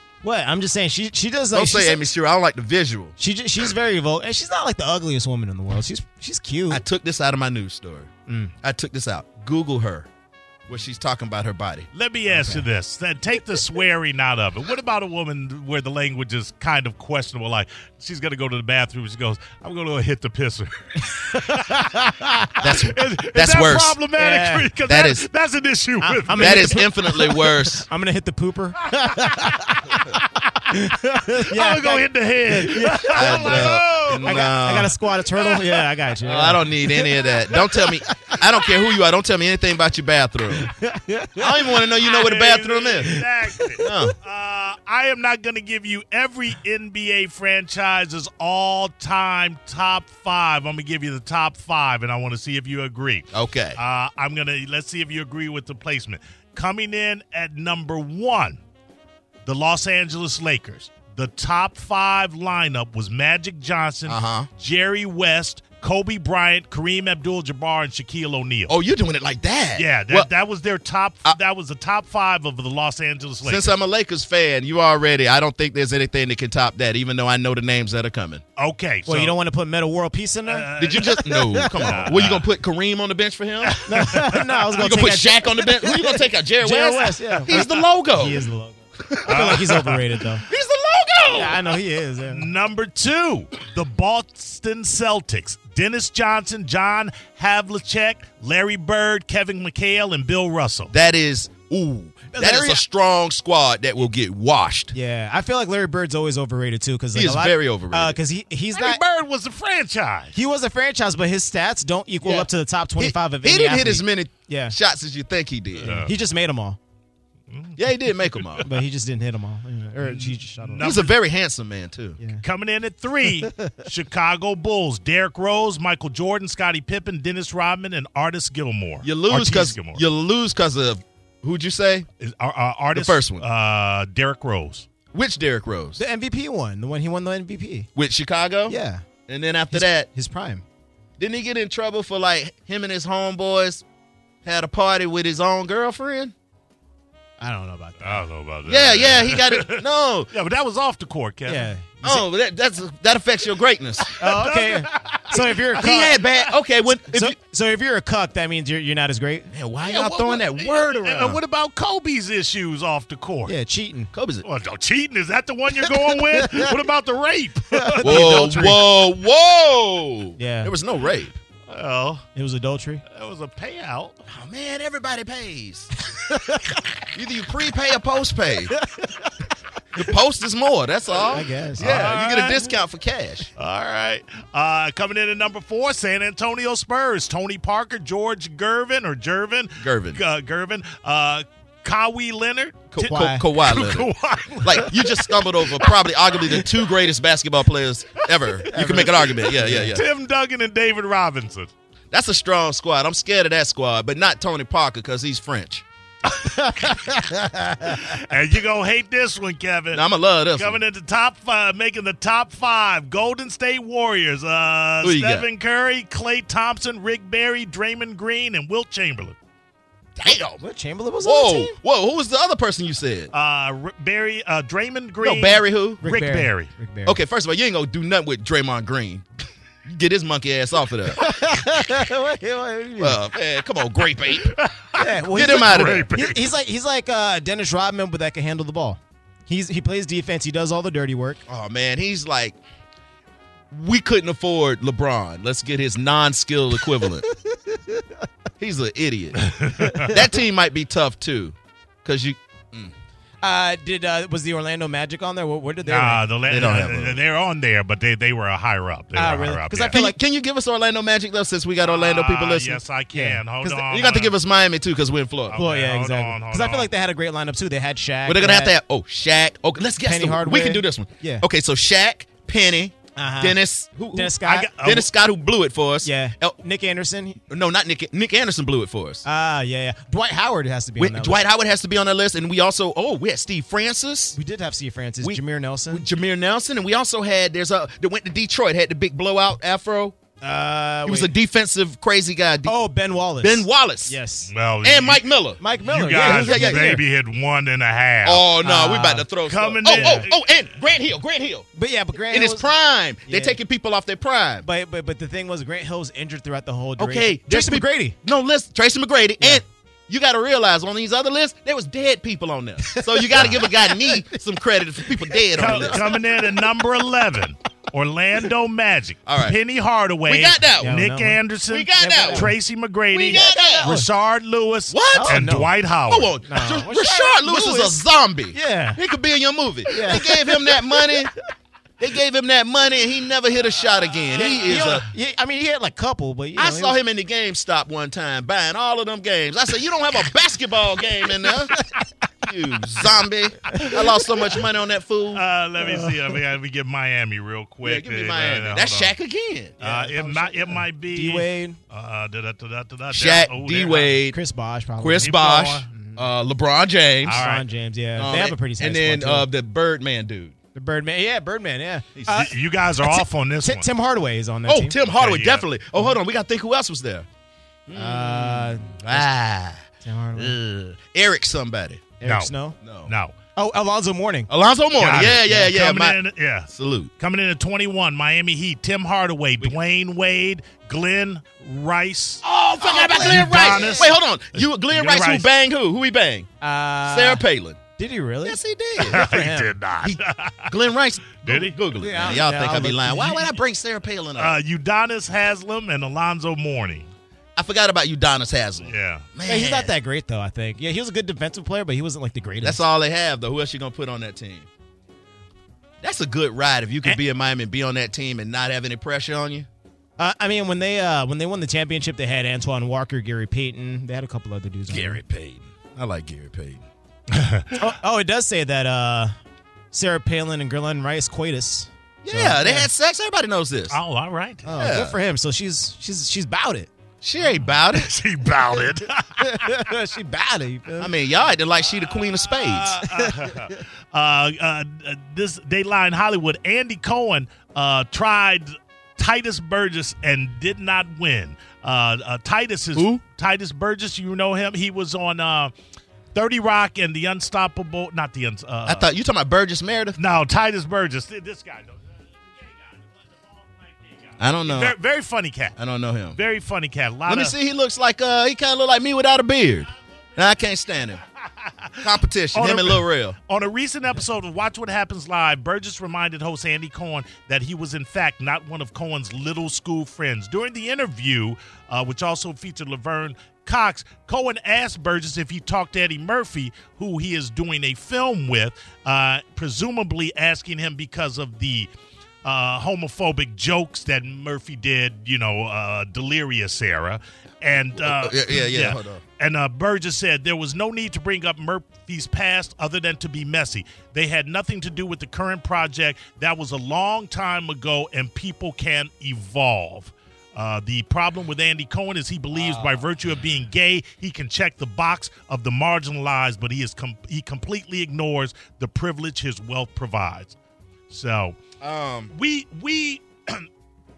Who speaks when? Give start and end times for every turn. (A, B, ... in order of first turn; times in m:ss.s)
0:00.2-0:02.1 A
0:01.5-0:03.2 B
0:03.2-0:06.8 A
0:06.7-0:08.1 B
0:08.3-0:08.5 A
0:08.6-0:10.1 B
0:10.7-0:11.9 B
0:11.9-0:22.0 C
0:12.3-0:12.6 A
0:21.0-0:22.7 A
0:22.6-0:24.0 B
0:22.6-0:26.8 C
0:24.1-0:24.7 A
0:24.9-0:25.2 B
0:26.0-0:38.7 A
0:26.4-0:27.8 B
0:30.2-0:30.8 C
0:31.5-0:34.5 C
0:33.1-0:35.0 B
0:35.4-0:35.9 C
0:36.2-0:40.7 B
0:40.5-0:41.8 A
0:41.4-0:43.2 B
0:42.0-0:58.6 C
0:43.8-0:44.1 B
0:53.3-0:53.8 B
0:59.4-1:08.7 C
1:04.1-1:04.5 B
1:08.7-1:10.3 B
1:09.8-1:13.7 C
1:13.4-1:18.4 B
1:18.6-1:19.3 C
1:19.0-1:22.1 A
1:20.5-1:22.5 C
1:20.8-1:23.8 B
1:23.6-1:24.7 C
1:23.8-1:27.6 A
1:24.8-1:28.4 B
1:27.5-1:27.8 C
1:28.1-1:30.4 A
1:29.3-1:30.0 C
1:30.5-1:31.6 B
1:31.3-1:32.5 A
1:32.2-1:40.9 C
1:40.9-1:44.9 B
1:42.3-1:42.8 A
1:44.9-1:49.0 A
1:47.1-1:48.2 B
1:48.7-1:50.3 C
1:50.3-1:54.8 A
1:52.2-1:56.0 B
1:55.8-1:56.1 C
1:55.8-1:56.8 A
1:57.5-1:58.7 C
1:57.8-1:58.7 B
1:58.6-2:00.9 A
2:00.0-2:01.1 C
2:00.8-2:02.2 B
2:02.4-2:10.0 C
2:03.2-2:03.8 A
2:09.0-2:12.1 B
2:12.2-2:14.9 C
2:12.9-2:13.4 B
2:15.1-2:16.0 B
2:16.0-2:17.9 A
2:18.0-2:20.1 B
2:18.7-2:19.0 A
2:19.7-2:20.6 A
2:21.2-2:23.8 B
2:24.4-2:26.3 B
2:27.4-2:28.2 A
2:28.0-2:31.7 C
2:28.6-2:30.3 B
2:31.4-2:32.3 A
2:32.0-2:34.2 B
2:34.0-2:36.4 C
2:34.2-2:36.2 A
2:35.8-2:37.3 B
2:37.1-2:39.5 A
2:39.5-2:41.4 B
2:39.8-2:43.5 C
2:43.5-2:44.1 A
2:44.1-2:44.4 B
2:44.4-2:48.3 C
2:45.8-2:46.8 A
2:47.7-2:48.8 A
2:48.0-2:51.4 B
2:50.4-2:50.7 A
2:51.7-2:52.2 C
2:52.3-2:53.0 A
2:53.1-2:54.1 C
2:54.3-2:55.9 B
2:56.1-2:56.8 A
2:57.1-2:58.8 B
2:58.7-2:59.5 A
2:59.9-3:03.5 B
3:01.3-3:02.1 A
3:01.8-3:02.8 C
3:03.6-3:16.8 C
3:09.8-3:10.2 B
3:12.9-3:14.1 B
3:13.0-3:13.4 A
3:14.6-3:20.0 B
3:18.6-3:20.0 A
3:18.6-3:21.7 C
3:22.1-3:25.8 B
3:26.4-3:27.1 C
3:26.5-3:28.1 A
3:27.8-3:39.4 C
3:29.9-3:30.8 B
3:35.0-3:35.5 B
3:40.2-3:40.6 B
3:40.6-3:41.8 A
3:41.2-3:43.3 B
3:43.3-3:46.7 C
3:45.2-3:46.0 B
3:46.0-3:47.2 A
3:47.0-3:49.2 B
3:49.8-3:51.3 B
3:51.1-3:53.2 A
3:53.0-3:54.6 B
3:54.5-3:56.4 C
3:54.9-4:01.4 A
3:55.3-3:56.2 B
4:01.5-4:02.6 B
4:03.7-4:07.3 B
4:06.8-4:08.0 A
4:08.6-4:09.4 B
4:09.4-4:10.2 C
4:09.8-4:10.3 A
4:10.0-4:12.9 B
4:13.4-4:16.2 A
4:15.8-4:20.0 C
4:16.5-4:17.2 B
4:19.1-4:20.2 A
4:19.9-4:22.8 B
4:21.8-4:24.4 C
4:23.1-4:23.8 A
4:23.8-4:25.6 B
4:25.5-4:26.9 C
4:25.6-4:28.7 A
4:28.2-4:36.6 B
4:30.0-4:31.4 A
4:33.2-4:33.6 A
4:34.1-4:34.7 A
4:34.4-4:35.1 C
4:36.0-4:37.4 A
4:37.5-4:39.2 B
4:39.2-4:41.4 A
4:41.0-4:44.4 B
4:44.4-4:46.0 A
4:45.2-4:50.1 B
4:50.4-4:51.3 A
4:51.0-4:52.7 B
4:52.6-4:54.5 A
4:53.4-4:54.2 B
4:54.5-4:55.2 C
4:54.8-4:55.6 B
4:55.6-4:57.0 A
4:55.8-4:58.5 C
4:56.1-4:57.0 B
4:58.2-5:01.7 B
4:58.6-4:59.2 A
4:59.4-5:00.5 C
4:59.9-5:00.3 A
5:01.7-5:02.7 A
5:02.2-5:04.6 B
5:03.2-5:03.6 A
5:04.6-5:08.2 A
5:07.0-5:16.1 B
5:12.9-5:14.4 A
5:15.0-5:16.8 A
5:15.6-5:26.3 C
5:19.2-5:19.6 B
5:20.3-5:21.0 B
5:20.8-5:21.4 A
5:21.7-5:22.5 B
5:22.0-5:22.5 A
5:23.1-5:23.9 B
5:23.3-5:24.1 A
5:24.9-5:25.5 B
5:25.1-5:25.7 A
5:26.1-5:31.3 B
5:26.5-5:28.0 A
5:28.5-5:29.0 A
5:29.9-5:31.3 A
5:32.0-5:35.1 B
5:34.3-5:37.0 A
5:34.4-5:34.9 C
5:36.6-5:41.8 B
5:41.4-5:42.0 A
5:42.4-5:45.4 B
5:43.7-5:44.4 A
5:45.3-5:49.1 C
5:45.8-5:46.3 A
5:47.8-5:49.7 B
5:49.8-5:51.8 A
5:49.8-5:54.2 C
5:53.1-5:54.4 B
5:54.3-5:55.4 A
5:55.0-5:57.4 B
5:55.2-5:55.9 C
5:55.9-5:56.2 A
5:57.2-5:57.6 C
5:57.3-5:59.5 A
5:58.2-6:00.5 B
6:00.7-6:05.0 A
6:02.2-6:02.5 B
6:02.3-6:03.9 C
6:04.7-6:07.2 B
6:05.1-6:05.7 C
6:07.9-6:12.0 B
6:07.9-6:09.3 A
6:10.0-6:10.6 A
6:12.2-6:12.8 A
6:12.2-6:12.5 C
6:12.8-6:13.1 B
6:13.1-6:13.3 C
6:13.6-6:14.5 A
6:14.5-6:16.2 B
6:15.0-6:22.4 C
6:16.7-6:17.1 B
6:22.4-6:26.5 B
6:22.8-6:24.1 A
6:23.0-6:25.5 C
6:26.6-6:27.4 A
6:27.0-6:27.8 B
6:28.0-6:29.7 A
6:28.4-6:29.2 B
6:29.0-6:30.7 C
6:30.0-6:34.6 B
6:31.4-6:31.8 C
6:32.0-6:33.5 A
6:34.4-6:37.1 C
6:37.6-6:39.9 B
6:38.8-6:39.3 C
6:39.4-6:42.8 A
6:42.6-6:44.7 B
6:46.0-6:49.7 B
6:50.2-6:55.2 A
6:54.9-6:56.8 B
6:57.3-6:57.8 C
6:57.7-6:59.3 A
6:59.9-7:02.9 A
7:02.2-7:04.0 B
7:03.9-7:05.0 C
7:04.6-7:06.9 A
7:04.8-7:05.2 B
7:07.2-7:08.1 B
7:07.4-7:09.9 C
7:09.4-7:11.1 A
7:11.0-7:13.0 B
7:12.5-7:13.8 A
7:12.7-7:25.7 C
7:22.9-7:23.2 B
7:26.3-7:29.1 C
7:28.8-7:30.2 B
7:30.2-7:35.8 C
7:34.4-7:34.9 B
7:35.8-7:36.4 B
7:36.4-7:37.5 C
7:37.3-7:41.2 B
7:41.5-8:01.9 C
7:42.0-7:43.4 B
8:02.4-8:30.6 C
8:08.0-8:09.2 B
8:22.5-8:23.0 B
8:31.1-8:31.6 C
8:31.8-8:32.3 B
8:32.3-8:33.7 C